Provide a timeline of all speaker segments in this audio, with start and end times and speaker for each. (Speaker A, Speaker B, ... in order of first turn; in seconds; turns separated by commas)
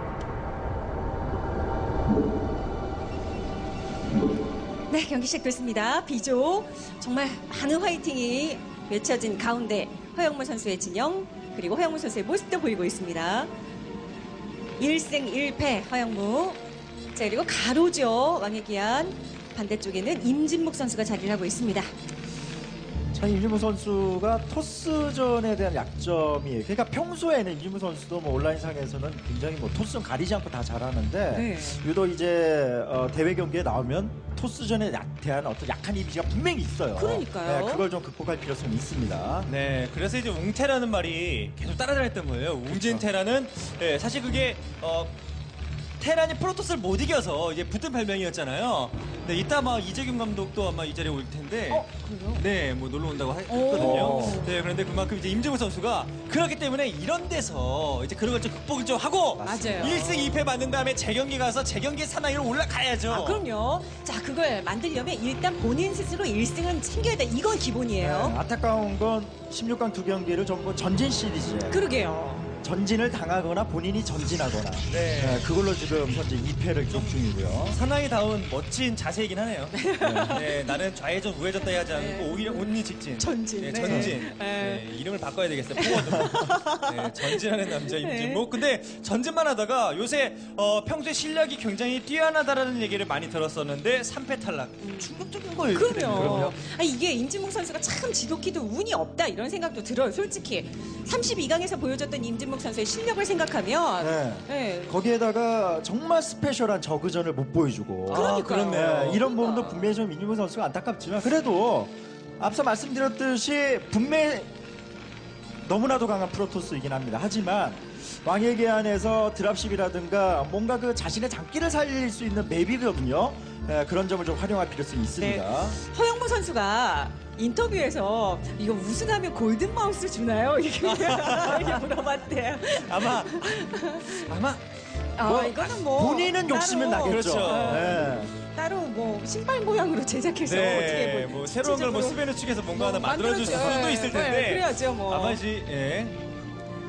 Speaker A: 4.9-13.5, Speaker A: 14.8-16.6, Speaker A: 17.1-21.9, Speaker B: 23.1-39.5, Speaker A: 31.3-31.8, Speaker A: 37.0-37.9, Speaker C: 39.5-45.1, Speaker B: 42.7-43.0, Speaker C: 46.0-63.5, Speaker A: 51.7-52.4, Speaker A: 53.5-54.5, Speaker B: 53.8-54.4, Speaker B: 59.4-60.0, Speaker A: 59.4-60.3, Speaker A: 63.1-68.4, Speaker B: 68.0-71.8, Speaker A: 71.7-72.5, Speaker B: 72.6-77.8, Speaker C: 74.9-75.5, Speaker C: 77.7-96.6, Speaker A: 79.7-80.7, Speaker B: 80.0-80.4, Speaker A: 81.8-84.8, Speaker B: 83.8-84.2, Speaker A: 85.8-88.5, Speaker A: 94.8-95.1, Speaker A: 95.7-105.0, Speaker B: 104.0-114.5, Speaker C: 108.1-109.2, Speaker A: 108.1-109.8, Speaker B: 115.6-125.8, Speaker A: 125.2-134.3, Speaker C: 130.8-131.9, Speaker C: 132.7-134.6, Speaker A: 135.2-145.4, Speaker B: 135.2-138.3, Speaker C: 137.1-138.1, Speaker C: 140.4-146.2